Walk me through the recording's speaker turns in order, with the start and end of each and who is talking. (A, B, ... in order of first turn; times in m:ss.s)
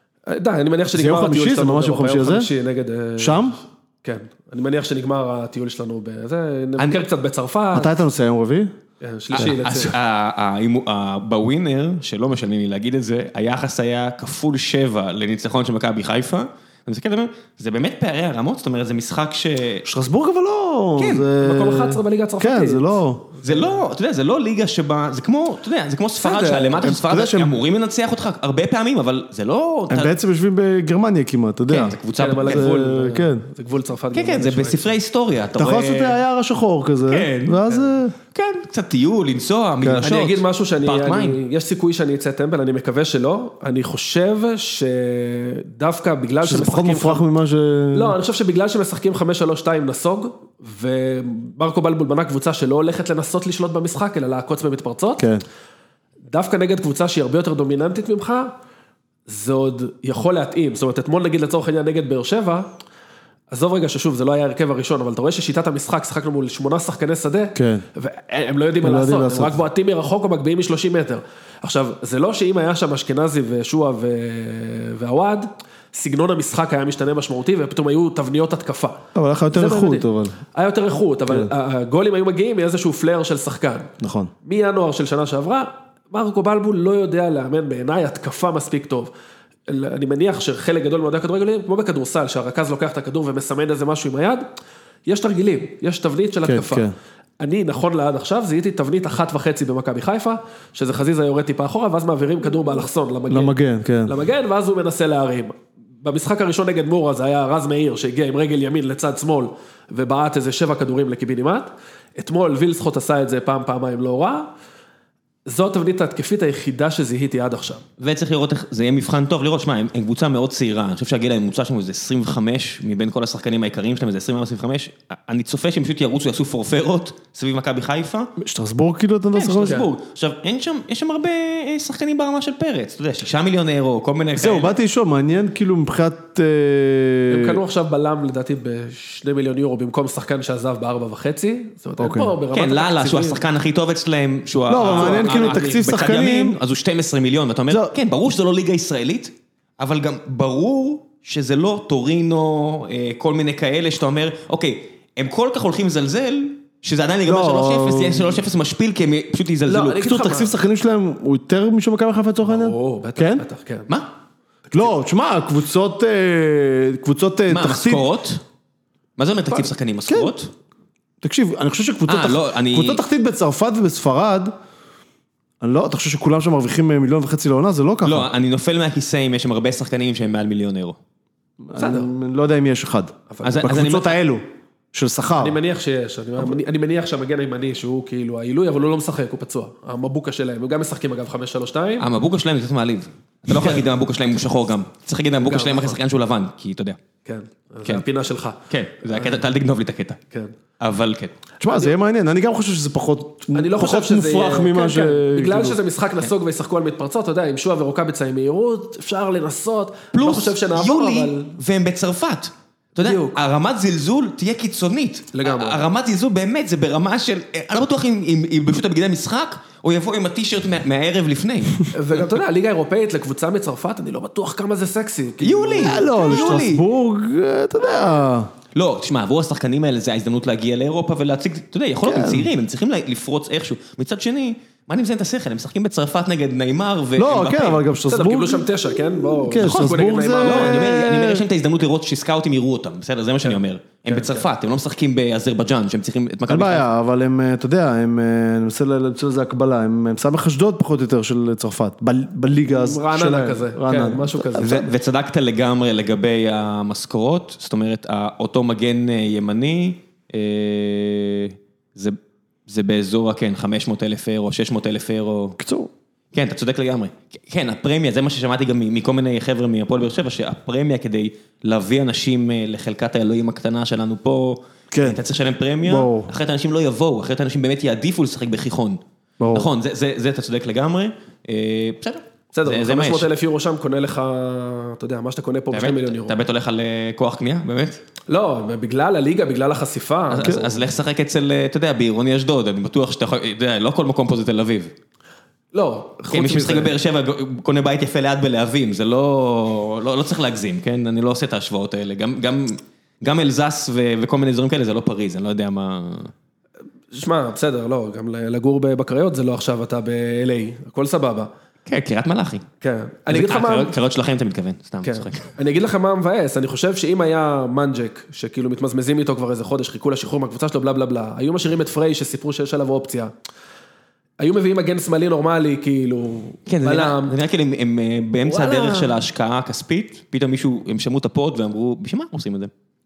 0:00.3-0:07.9 A
0:00.9-0:02.5 B
0:03.2-0:03.6 B
0:06.8-0:07.0 C
0:07.7-0:08.7 B
0:09.0-0:09.9 A
0:09.3-0:19.9 C
0:19.8-0:23.3 B
0:21.0-0:21.2 C
0:21.3-0:23.7 A
0:23.4-0:30.1 C
0:26.2-0:26.9 A
0:26.8-0:27.6 B
0:29.9-0:33.4 B
0:31.7-0:32.7 C
0:32.2-0:35.0 A
0:34.1-0:36.2 C
0:35.6-0:38.2 B
0:37.1-0:37.6 C
0:38.3-0:41.4 C
0:39.8-0:40.1 B
0:40.0-0:47.2 A
0:46.4-0:48.2 B
0:47.9-0:55.2 A
0:55.2-0:55.4 B
0:56.3-0:58.5 A
0:59.3-1:02.7 A
1:03.5-1:23.9 A
1:07.6-1:07.8 B
1:08.8-1:09.6 B
1:19.2-1:20.4 B
1:24.0-1:24.3 B
1:24.4-1:29.1 A
1:29.7-1:34.4 A
1:35.1-1:36.9 A
1:36.4-1:36.9 B
1:37.4-1:54.5 A
1:43.3-1:44.1 B
1:55.5-1:57.8 A
1:58.0-2:08.3 C
2:08.4-2:09.8 B
2:09.4-2:14.7 C
2:14.4-2:17.6 B
2:17.3-2:23.4 A
2:22.0-2:22.3 B
2:22.5-2:40.1 C
2:24.7-2:26.6 B
2:24.8-2:25.9 A
2:37.2-2:38.4 B
2:39.7-2:40.6 A
2:40.0-2:43.4 B
2:42.4-2:43.9 A
2:44.7-2:44.9 A
2:44.7-2:48.0 B
2:47.5-2:48.4 C
2:49.2-2:50.5 C
2:51.2-2:54.5 B
2:52.1-2:53.0 C
2:55.6-2:58.3 B
2:58.0-3:01.0 C
3:01.7-3:05.6 B
3:01.8-3:02.1 A
3:03.3-3:03.8 A
3:03.4-3:04.2 C
3:05.4-3:12.1 A
3:12.0-3:17.0 C
3:15.4-3:16.0 A
3:17.2-3:19.4 A
3:18.7-3:20.2 C
3:20.8-3:21.4 C
3:21.6-3:25.8 B
3:21.7-3:21.9 A
3:23.5-3:31.5 A
3:30.1-3:41.9 C
3:33.0-3:33.4 A
3:35.3-3:35.8 A
3:41.9-3:46.6 A
3:45.4-3:46.8 C
3:45.8-3:48.5 B
3:48.7-3:57.8 C
3:52.0-3:52.5 B
3:57.2-4:01.4 B
3:58.1-4:01.1 A
3:59.6-4:06.8 C
4:04.1-4:04.5 A
4:06.5-4:14.8 B
4:12.7-4:14.9 A
4:14.6-4:25.6 C
4:25.6-4:25.9 B
4:26.3-4:39.0 C
4:34.9-4:35.2 B
4:35.8-4:36.3 B
4:39.4-4:39.7 B
4:39.5-4:43.3 C
4:42.5-4:46.4 A
4:45.7-4:48.0 C
4:48.3-4:50.8 A
4:50.3-4:54.9 C
4:55.7-4:56.9 A
4:56.3-5:06.3 C
5:07.1-5:11.5 A
5:11.9-5:12.6 C
5:12.8-5:13.9 A
5:13.3-5:15.5 C
5:15.0-5:23.3 A
5:24.4-5:27.4 A
5:26.7-5:32.7 C
5:28.4-5:29.2 A